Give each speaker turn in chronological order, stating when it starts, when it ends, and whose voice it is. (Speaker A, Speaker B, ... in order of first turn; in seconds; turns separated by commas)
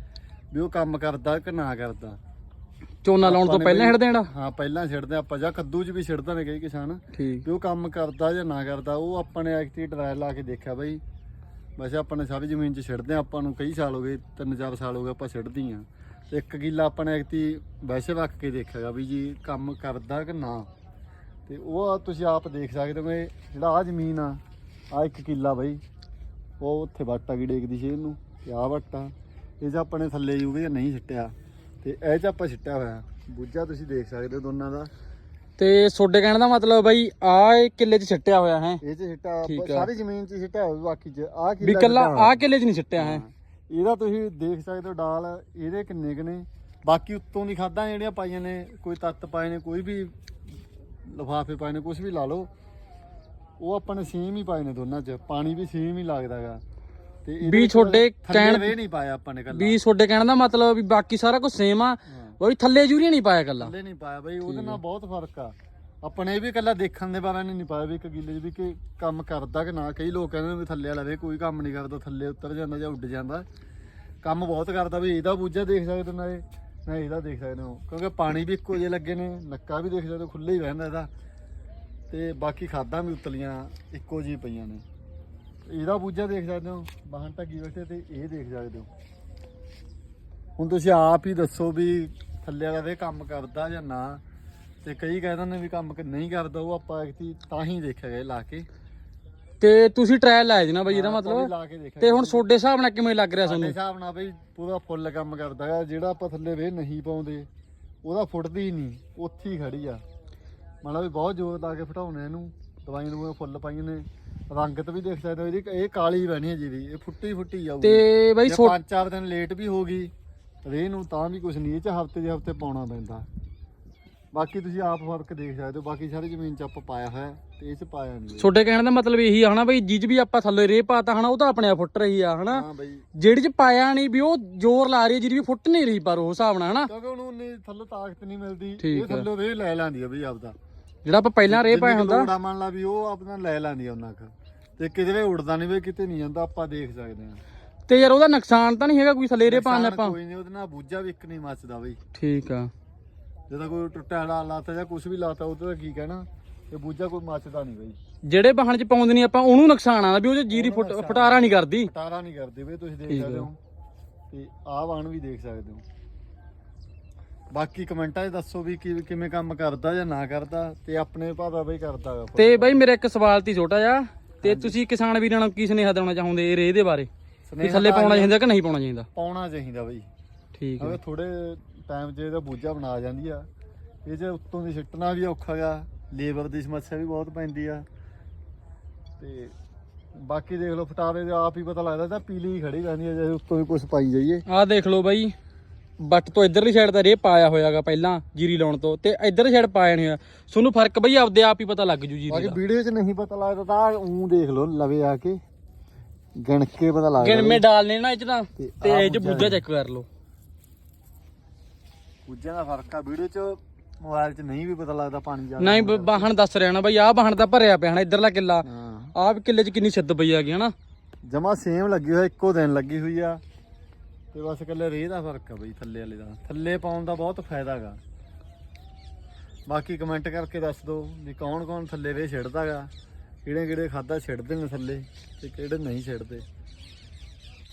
Speaker A: 0.5-2.2, Speaker B: 3.0-4.3, Speaker A: 3.2-11.0, Speaker B: 7.1-7.5, Speaker A: 11.8-20.7, Speaker A: 21.5-25.8, Speaker A: 26.6-34.9, Speaker B: 35.6-38.8, Speaker A: 38.8-42.4, Speaker B: 39.5-39.9, Speaker B: 41.6-43.2, Speaker A: 43.0-50.1, Speaker A: 51.0-52.5, Speaker A: 53.6-56.6, Speaker A: 57.2-59.8, Speaker B: 57.4-58.7, Speaker B: 59.5-63.7, Speaker A: 62.1-62.4, Speaker A: 63.6-73.5, Speaker B: 64.4-64.8, Speaker A: 74.2-81.1, Speaker A: 82.1-84.8, Speaker A: 85.7-88.9, Speaker A: 90.6-94.2, Speaker A: 94.8-98.7, Speaker B: 99.6-101.5, Speaker A: 100.9-102.4, Speaker B: 102.0-103.7, Speaker A: 103.4-107.5, Speaker A: 108.0-110.0, Speaker A: 110.8-120.1, Speaker B: 117.8-118.7, Speaker A: 120.6-123.2, Speaker A: 124.3-128.5, Speaker B: 128.4-136.9, Speaker A: 132.5-133.1, Speaker A: 136.9-140.5, Speaker B: 138.8-139.2, Speaker B: 141.0-142.3, Speaker A: 141.4-147.4, Speaker B: 147.9-150.2, Speaker A: 149.4-152.0, Speaker B: 152.1-152.7, Speaker A: 153.5-158.0, Speaker B: 158.2-161.9, Speaker A: 160.5-163.6, Speaker B: 163.1-163.5, Speaker A: 164.3-165.8, Speaker A: 167.5-172.8, Speaker B: 172.3-177.1, Speaker A: 174.4-174.8, Speaker A: 177.5-178.3, Speaker B: 177.6-179.1, Speaker A: 179.1-180.1, Speaker B: 180.6-181.0, Speaker A: 180.8-183.5, Speaker A: 184.0-187.8, Speaker A: 189.2-189.5, Speaker A: 190.2-194.4, Speaker B: 194.5-195.3, Speaker B: 196.0-202.6, Speaker A: 202.3-205.4, Speaker A: 206.4-207.6, Speaker B: 207.2-210.1, Speaker A: 208.6-209.6, Speaker A: 212.2-216.3, Speaker B: 215.6-220.7, Speaker A: 218.6-219.1, Speaker A: 221.2-223.4, Speaker A: 224.3-228.0, Speaker A: 229.7-232.9, Speaker A: 233.4-236.4